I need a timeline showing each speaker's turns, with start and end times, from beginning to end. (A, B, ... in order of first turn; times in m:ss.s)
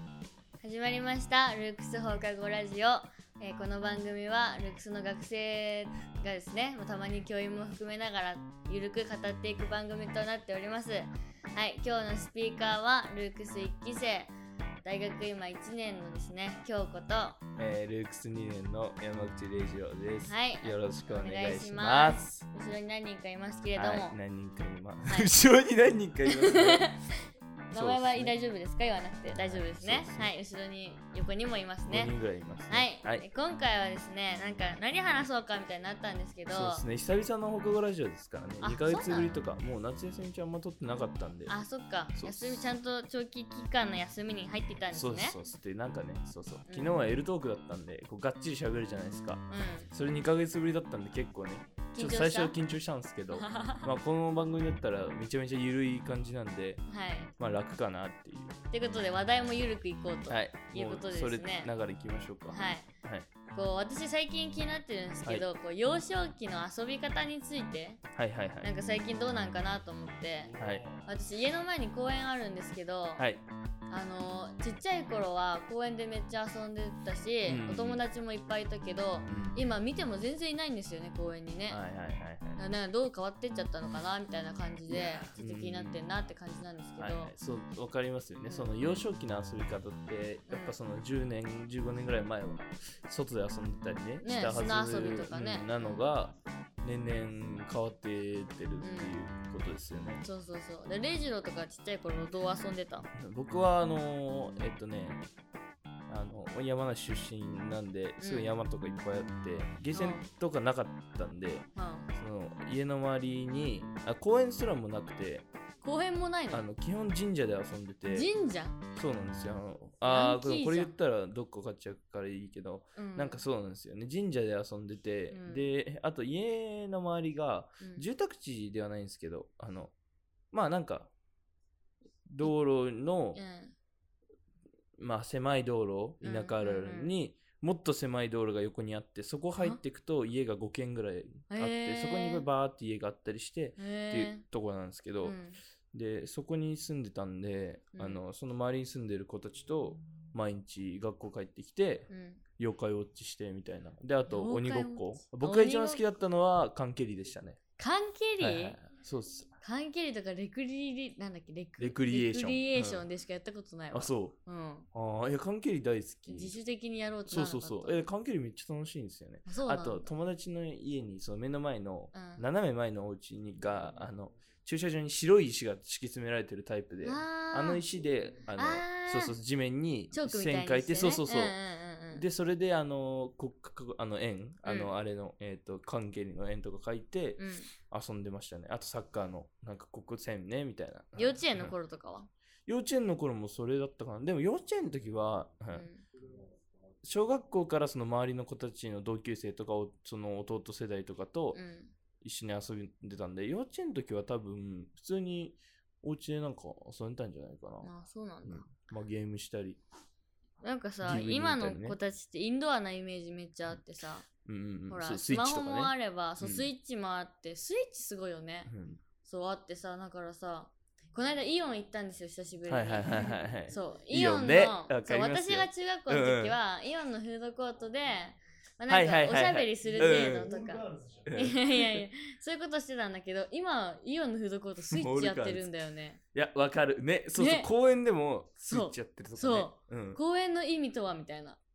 0:00.6-0:14.3 A
0:14.8-0:17.4 A
0:17.6-0:22.4 B
0:20.3-0:24.2 A
0:23.8-0:26.9 B
0:26.2-0:27.0 A
0:27.7-0:32.1 A
0:27.7-0:28.3 B
0:29.4-0:30.3 B
0:31.9-0:33.2 B
0:32.7-0:36.8 A
0:36.5-0:41.6 B
0:38.6-0:39.4 A
0:41.5-0:45.4 A
0:42.1-0:42.6 B
0:44.9-0:56.8 B
0:46.7-0:47.1 A
0:49.5-0:49.9 A
0:51.9-0:52.6 A
0:53.3-0:53.9 A
0:56.9-0:57.3 A
0:57.4-0:58.6 B
0:58.7-1:01.7 A
1:00.3-1:03.3 B
1:02.5-1:02.9 A
1:03.5-1:08.0 A
1:08.1-1:08.7 B
1:08.6-1:13.2 A
1:10.6-1:10.9 B
1:13.2-1:13.4 B
1:13.9-1:21.8 A
1:17.4-1:18.0 B
1:19.3-1:19.6 B
1:21.7-1:22.6 B
1:22.6-1:27.3 A
1:24.9-1:26.0 B
1:27.0-1:40.2 B
1:28.4-1:28.8 A
1:30.5-1:30.8 A
1:34.2-1:36.0 A
1:38.8-1:39.2 A
1:40.2-1:43.1 A
1:43.1-1:45.2 B
1:46.1-1:55.5 B
1:48.2-1:48.6 A
1:49.9-1:50.2 A
1:51.7-1:52.1 A
1:55.8-1:56.6 A
1:56.5-1:58.3 B
1:58.1-1:58.8 A
1:58.9-2:09.9 B
2:00.0-2:00.9 A
2:03.0-2:03.4 A
2:05.3-2:05.7 A
2:10.5-2:11.1 B
2:12.3-2:13.4 B
2:13.3-2:13.7 A
2:15.0-2:25.4 B
2:16.2-2:17.1 A
2:21.5-2:22.4 A
2:23.8-2:24.4 A
2:25.2-2:25.6 A
2:25.9-2:37.6 B
2:27.9-2:28.2 A
2:32.1-2:32.4 A
2:34.3-2:36.0 A
2:37.8-2:38.8 A
2:38.4-2:39.6 B
2:39.6-2:44.9 A
2:41.8-2:43.0 B
2:43.9-2:44.4 B
2:44.9-2:46.6 B
2:46.3-2:48.1 A
2:47.3-3:01.6 B
2:49.5-2:50.1 A
2:52.1-2:52.4 A
2:57.0-2:57.8 A
2:58.5-2:59.4 A
3:00.1-3:02.2 A
3:02.1-3:11.8 B
3:04.6-3:04.9 A
3:07.4-3:07.7 A
3:11.2-3:12.3 A
3:12.7-3:15.9 B
3:15.7-3:16.0 A
3:17.0-3:21.6 B
3:21.5-3:21.9 A
3:22.2-3:27.9 B
3:27.8-3:28.7 A
3:28.4-3:29.8 B
3:30.6-3:34.3 A
3:31.0-3:32.0 B
3:34.4-3:36.7 B
3:34.9-3:38.7 A
3:38.7-3:39.0 B
3:39.2-3:56.2 A
3:42.7-3:46.6 B
3:48.9-3:50.7 B
3:51.2-3:52.0 B
3:54.9-3:55.7 B
3:56.3-4:00.2 B
3:57.4-3:57.7 A
3:58.6-4:01.6 A